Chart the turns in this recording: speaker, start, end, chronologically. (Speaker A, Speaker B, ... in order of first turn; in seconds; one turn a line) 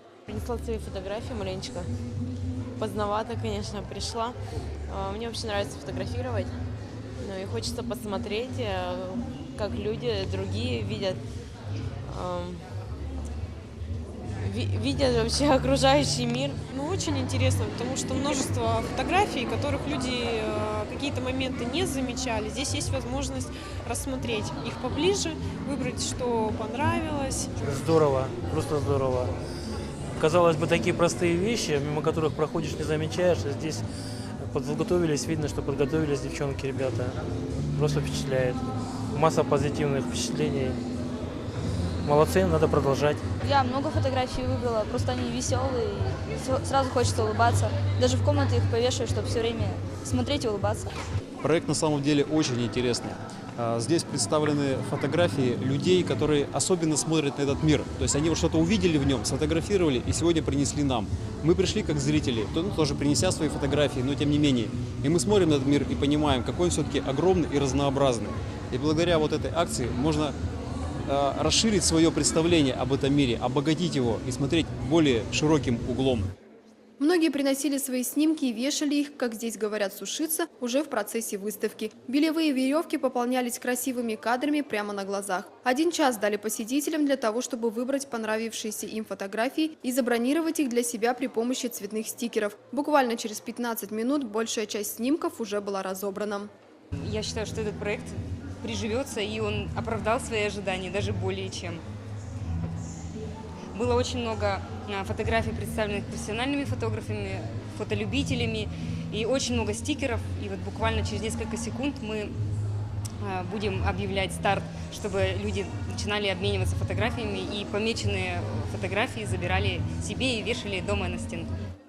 Speaker A: 0.3-1.9
Speaker A: 2.8-6.6
Speaker A: 7.2-11.2
Speaker A: 12.0-12.7
Speaker A: 14.4-16.6
Speaker B: 16.7-27.5
Speaker C: 27.6-29.3
Speaker C: 30.2-33.8
Speaker C: 34.4-37.2
Speaker C: 37.7-40.8
Speaker C: 42.0-43.2
Speaker D: 43.4-50.9
Speaker E: 51.4-70.3
Speaker E: 71.1-76.3
Speaker F: 77.0-96.5
Speaker G: 97.0-101.8
Speaker G: 103.7-112.3
Speaker G: 113.2-121.5